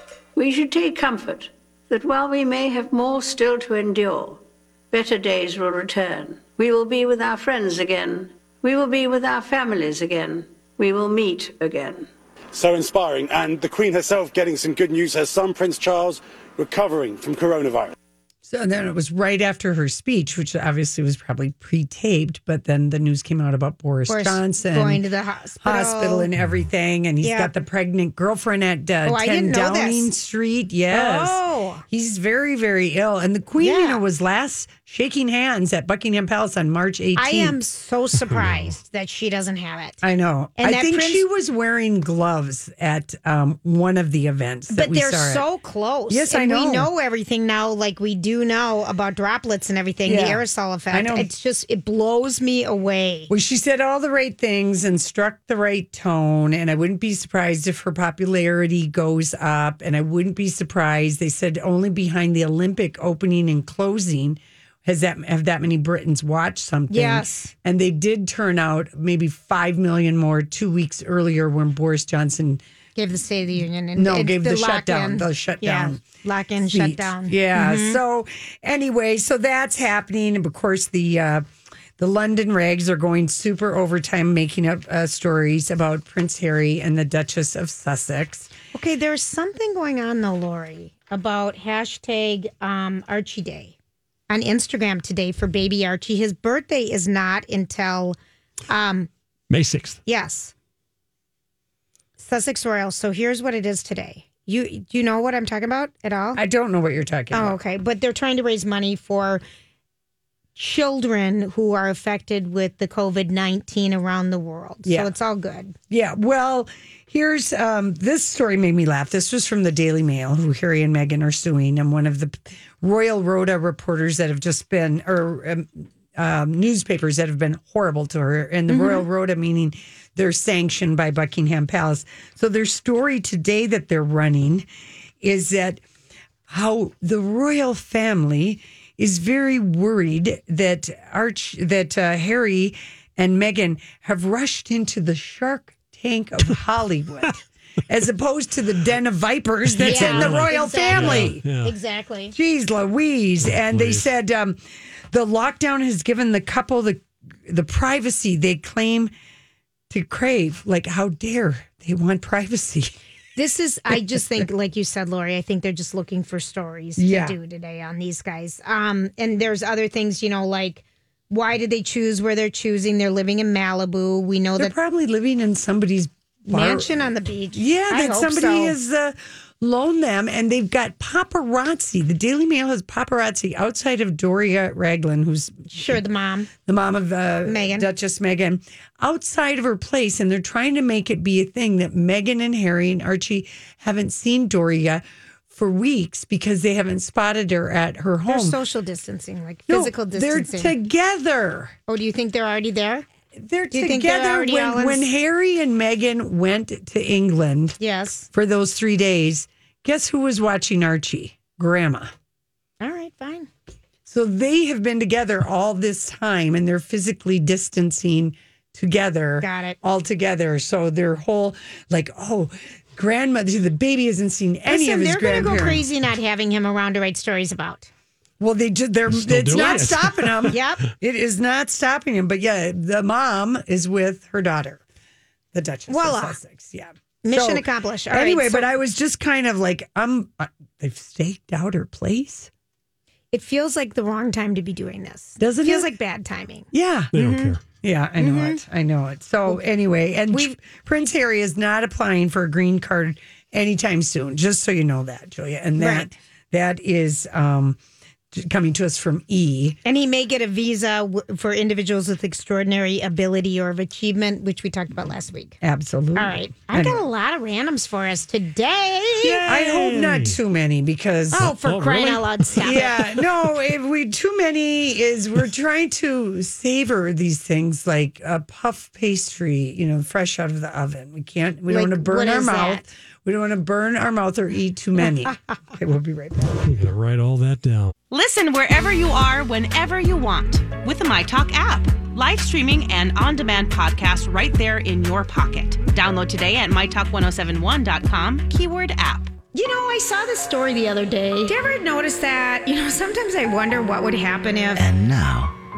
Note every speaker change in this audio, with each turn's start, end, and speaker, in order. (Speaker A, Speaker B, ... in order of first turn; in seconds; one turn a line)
Speaker A: 0.4-12.1
Speaker B: 12.5-17.9
Speaker C: 18.4-25.0
Speaker D: 24.1-26.3
Speaker C: 25.6-37.6
Speaker E: 26.4-26.7
Speaker D: 27.2-27.5
Speaker D: 29.1-30.1
Speaker D: 30.9-31.8
Speaker D: 33.6-34.0
Speaker D: 37.2-40.0
Speaker E: 38.3-38.7
Speaker C: 40.0-45.5
Speaker D: 40.6-41.2
Speaker D: 44.7-53.3
Speaker C: 46.1-46.9
Speaker C: 50.1-51.3
Speaker C: 53.3-72.6
Speaker D: 66.9-67.5
Speaker D: 73.0-78.0
Speaker C: 74.0-76.0
Speaker C: 76.6-81.5
Speaker C: 82.0-88.5
Speaker D: 88.7-93.8
Speaker D: 94.3-98.2
Speaker D: 98.7-99.1
Speaker E: 99.5-100.0
Speaker D: 100.1-100.5
Speaker D: 102.2-106.4
Speaker C: 106.3-107.6
Speaker D: 107.3-109.4
Speaker D: 110.6-115.8
Speaker C: 114.9-115.1
Speaker C: 115.9-134.7
Speaker D: 128.7-129.1
Speaker C: 135.2-135.8
Speaker C: 136.5-151.4
Speaker E: 149.7-151.8
Speaker D: 149.8-152.3
Speaker C: 152.3-154.6
Speaker E: 153.5-154.1
Speaker C: 155.1-159.1
Speaker C: 159.9-163.0
Speaker D: 163.4-174.7
Speaker C: 163.9-164.5
Speaker C: 167.0-167.4
Speaker C: 174.6-186.0
Speaker D: 176.5-178.8
Speaker D: 185.7-186.5
Speaker C: 186.7-198.6
Speaker D: 187.5-187.9
Speaker D: 198.3-200.8
Speaker C: 199.7-201.8
Speaker D: 201.9-203.1
Speaker C: 203.4-207.8
Speaker D: 203.7-205.1
Speaker D: 207.8-208.3
Speaker C: 208.3-212.1
Speaker D: 212.8-213.5
Speaker C: 214.1-225.8
Speaker D: 219.4-219.8
Speaker D: 224.7-227.9
Speaker C: 228.4-234.8
Speaker E: 229.1-230.6
Speaker D: 229.5-230.8
Speaker C: 235.5-242.5
Speaker D: 235.9-236.4
Speaker D: 237.2-238.7
Speaker D: 243.3-247.6
Speaker C: 245.4-245.9
Speaker C: 246.7-247.1
Speaker E: 247.1-247.6
Speaker C: 247.7-257.8
Speaker D: 248.2-248.6
Speaker D: 255.8-256.1
Speaker C: 258.3-259.8
Speaker D: 259.9-265.6
Speaker C: 265.6-267.0
Speaker D: 266.1-269.6
Speaker C: 269.2-271.5
Speaker E: 269.5-270.4
Speaker D: 271.3-273.0
Speaker E: 271.4-272.7
Speaker C: 272.6-286.7
Speaker D: 281.7-282.8
Speaker E: 286.6-287.9
Speaker F: 288.1-299.3
Speaker D: 299.5-304.9